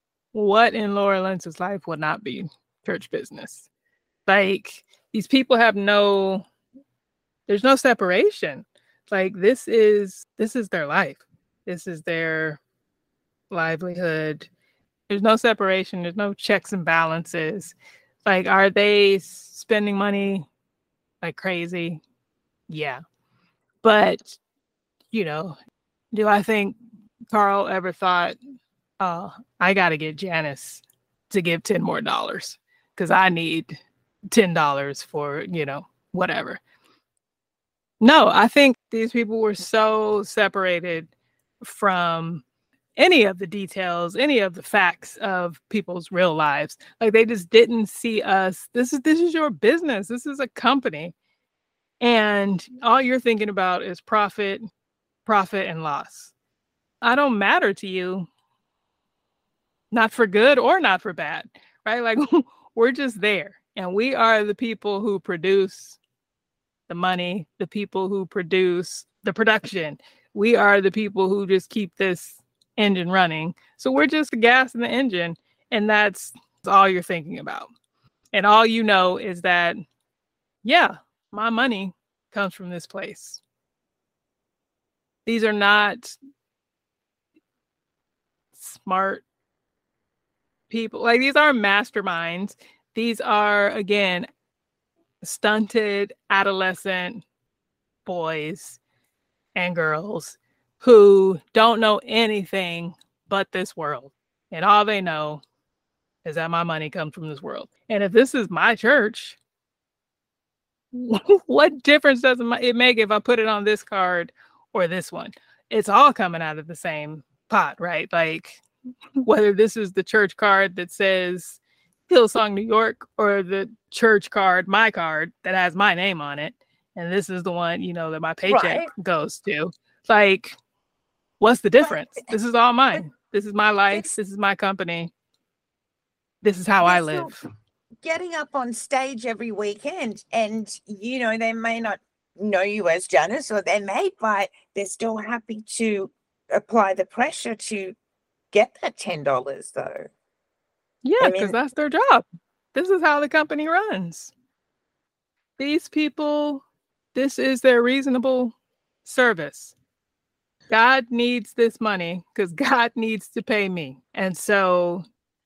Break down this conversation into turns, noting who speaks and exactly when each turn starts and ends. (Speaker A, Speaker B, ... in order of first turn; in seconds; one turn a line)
Speaker A: 0.3-3.6
Speaker A: 4.3-6.5
Speaker A: 7.5-12.6
Speaker A: 13.5-14.5
Speaker A: 15.1-20.5
Speaker A: 21.2-22.0
Speaker A: 22.7-23.0
Speaker A: 23.8-24.4
Speaker A: 25.1-25.6
Speaker A: 26.1-26.8
Speaker A: 27.3-28.4
Speaker A: 29.0-33.8
Speaker A: 34.3-36.6
Speaker A: 38.0-41.1
Speaker A: 41.6-42.4
Speaker A: 43.0-51.1
Speaker A: 52.0-54.7
Speaker A: 55.3-56.3
Speaker A: 57.0-58.3
Speaker A: 59.9-66.0
Speaker A: 66.9-77.7
Speaker A: 78.3-79.8
Speaker A: 80.6-83.4
Speaker A: 85.3-86.2
Speaker A: 88.6-89.2
Speaker A: 90.7-94.3
Speaker A: 95.2-97.2
Speaker A: 98.1-98.8
Speaker A: 99.6-105.4
Speaker A: 106.2-109.4
Speaker A: 110.9-118.6
Speaker A: 119.2-130.6
Speaker B: 128.5-128.9
Speaker A: 131.4-135.1
Speaker B: 131.8-132.2
Speaker A: 136.4-137.4
Speaker B: 136.8-137.4
Speaker B: 138.0-148.0
Speaker B: 148.5-150.1
Speaker A: 151.1-154.3
Speaker B: 151.2-151.6
Speaker A: 155.6-156.6
Speaker A: 157.2-158.5
Speaker A: 159.1-159.7
Speaker A: 160.7-165.1